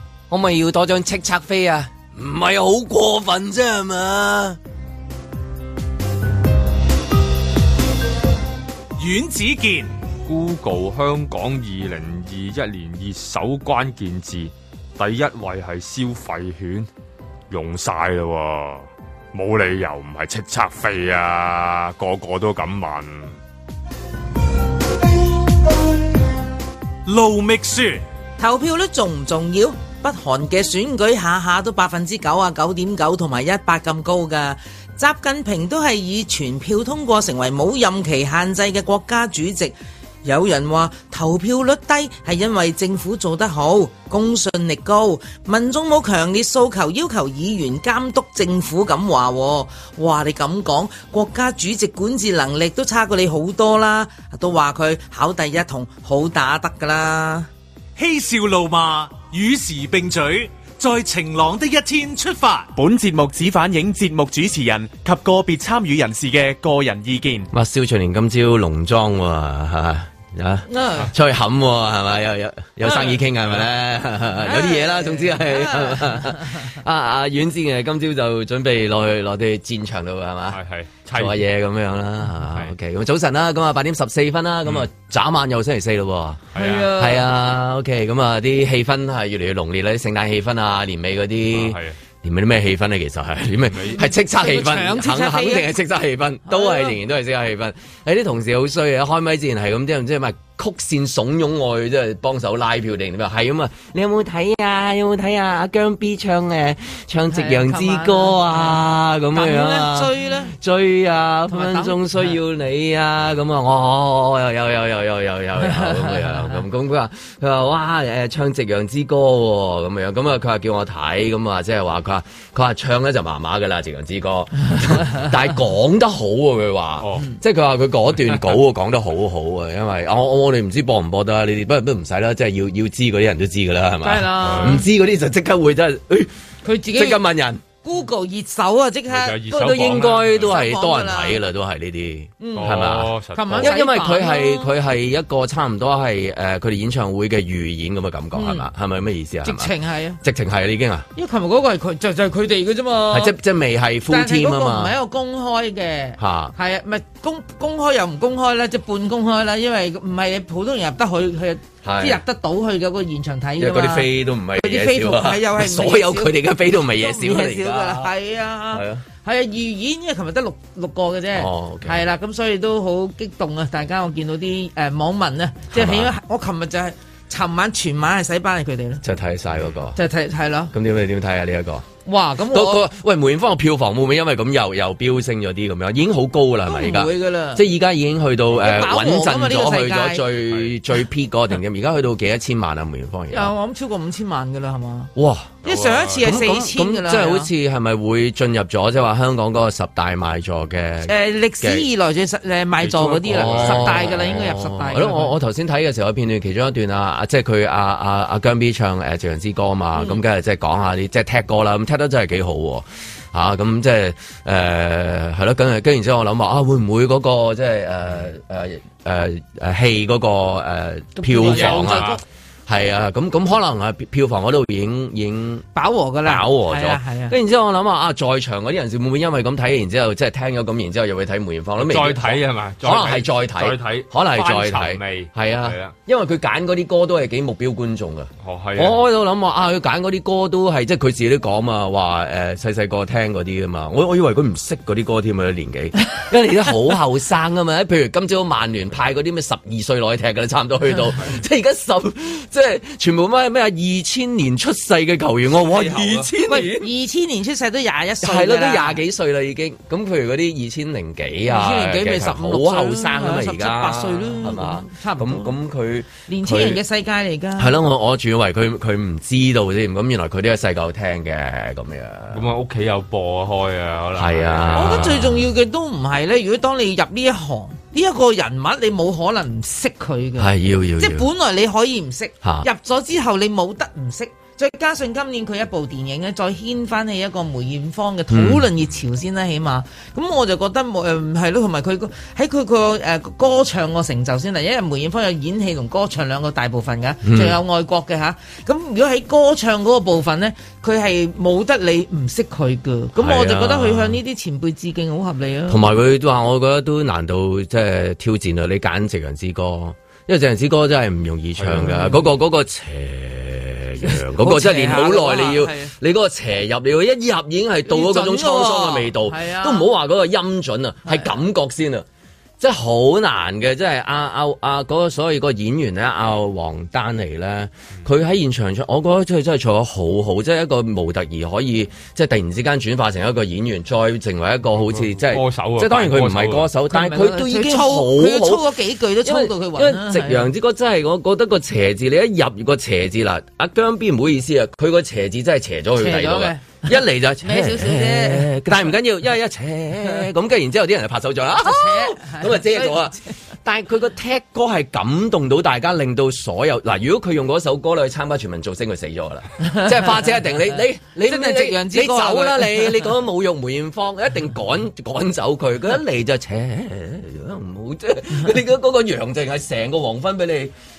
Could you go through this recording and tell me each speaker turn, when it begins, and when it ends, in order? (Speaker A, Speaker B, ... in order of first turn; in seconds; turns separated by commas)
Speaker A: 0.3-4.6, Speaker B: 9.0-9.9, Speaker C: 10.2-16.9, Speaker C: 17.5-23.4, Speaker B: 27.1-28.0, Speaker D: 28.4-57.5, Speaker B: 58.0-62.7, Speaker E: 62.7-67.5, Speaker A: 67.5-80.6, Speaker D: 70.7-71.1, Speaker D: 72.8-73.2, Speaker D: 74.4-76.7, Speaker C: 80.5-81.4, Speaker A: 81.1-136.3, Speaker C: 86.5-86.9, Speaker D: 86.5-87.2, Speaker C: 91.5-92.0, Speaker C: 93.7-94.0, Speaker D: 93.9-95.7, Speaker D: 96.5-97.0, Speaker D: 107.3-108.8, Speaker D: 109.3-110.5, Speaker D: 111.5-112.3, Speaker D: 115.6-116.6, Speaker C: 127.0-127.2, Speaker D: 134.0-134.8, Speaker C: 134.4-134.8, Speaker D: 136.6-137.2, Speaker A: 136.9-137.6, Speaker D: 137.8-139.4, Speaker C: 139.1-140.5, Speaker A: 139.5-151.1, Speaker D: 140.5-141.4, Speaker D: 142.4-144.7, Speaker C: 142.6-143.7, Speaker D: 148.3-148.7, Speaker D: 149.4-150.2, Speaker D: 151.2-153.3, Speaker A: 153.1-154.9, Speaker D: 154.1-179.0, Speaker A: 156.2-156.5, Speaker A: 161.8-162.2, Speaker A: 163.6-168.1, Speaker A: 168.7-169.0, Speaker A: 171.3-172.0, Speaker A: 175.7-176.1, Speaker A: 179.0-180.0, Speaker D: 179.9-180.7, Speaker A: 180.7-181.8, Speaker D: 182.1-182.8, Speaker A: 182.5-193.5, Speaker D: 186.7-187.7, Speaker D: 188.6-190.2, Speaker D: 193.3-195.1, Speaker A: 195.2-195.6, Speaker C: 195.6-196.3, Speaker D: 195.6-197.5, Speaker A: 196.2-201.8, Speaker D: 201.1-205.3, Speaker C: 202.8-204.1, Speaker A: 203.2-222.1, Speaker D: 221.2-222.2, Speaker C: 221.4-222.2, Speaker A: 222.7-225.7, Speaker D: 225.7-227.3, Speaker A: 226.2-256.9, Speaker C: 231.8-235.9, Speaker C: 238.4-239.0, Speaker C: 255.6-256.3, Speaker D: 256.4-259.0, Speaker A: 258.2-266.8, Speaker D: 261.5-265.5, Speaker D: 266.3-267.7, Speaker A: 267.6-272.5, Speaker C: 272.3-275.1, Speaker A: 274.1-275.4, Speaker D: 274.8-305.8, Speaker A: 280.4-281.3, Speaker A: 282.4-282.7, Speaker A: 288.3-288.7, Speaker A: 297.2-297.6, Speaker A: 303.1-304.2, Speaker A: 305.7-322.0, Speaker C: 311.6-311.9, Speaker D: 311.8-312.2, Speaker D: 314.0-315.9, Speaker D: 317.9-319.9, Speaker D: 321.1-321.3, Speaker A: 322.6-370.7, Speaker C: 334.8-336.7, Speaker D: 336.9-340.5, Speaker D: 345.9-348.9, Speaker D: 351.6-353.3, Speaker D: 361.2-363.1